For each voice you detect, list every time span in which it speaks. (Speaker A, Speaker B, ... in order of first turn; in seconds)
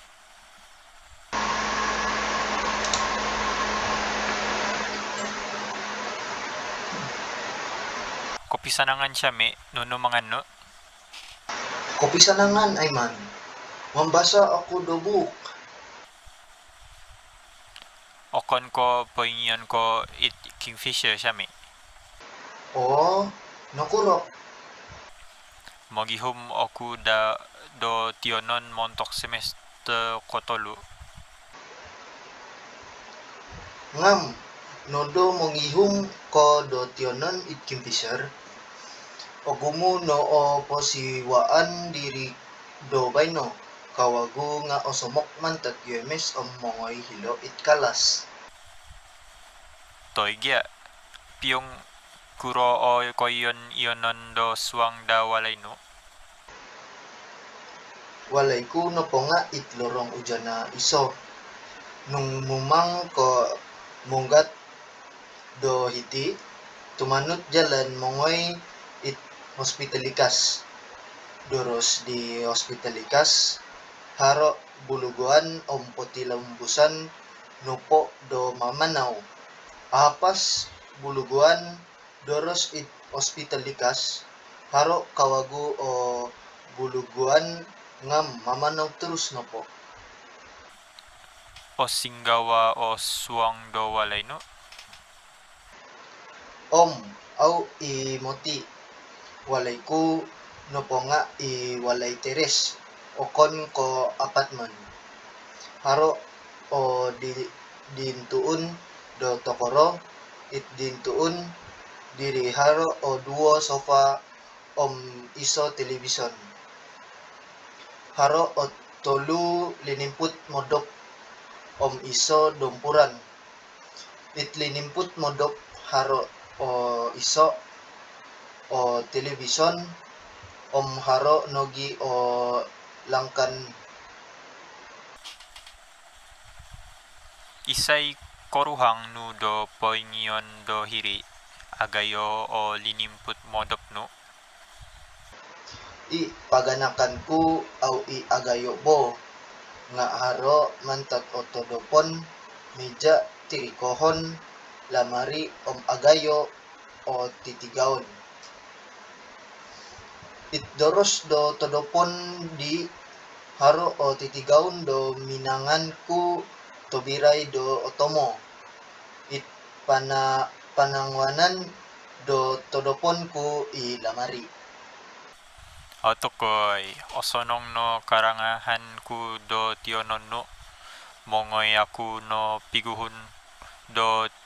Speaker A: 8.5-10.4, 18.3-21.5, 25.9-30.8, 50.1-50.7, 51.4-51.8, 52.4-55.8, 91.8-94.4, 137.7-141.2, 141.8-144.1, 176.0-180.5, 181.3-183.3, 183.9-184.3
Speaker B: 12.0-13.2, 13.9-15.4, 22.7-24.2, 33.9-34.3, 34.9-38.2, 39.5-42.3, 42.9-48.2, 58.3-61.1, 62.1-63.4, 64.1-64.5, 65.6-66.3, 67.0-68.5, 69.0-70.6, 71.5-73.3, 74.2-76.9, 77.6-79.2, 79.9-80.5, 81.0-81.6, 82.2-87.5, 88.0-89.7, 96.7-98.6, 99.5-104.8, 105.8-106.1, 106.7-109.9, 110.5-111.4, 112.1-114.1, 114.8-116.4, 118.2-120.9, 121.8-123.2, 124.3-127.5, 128.7-129.8, 130.7-133.6, 146.1-149.1, 149.9-152.1, 152.8-154.2, 154.9-156.4, 157.1-158.1, 160.5-162.8, 163.6-166.2, 166.9-168.4, 169.3-171.6, 172.2-174.5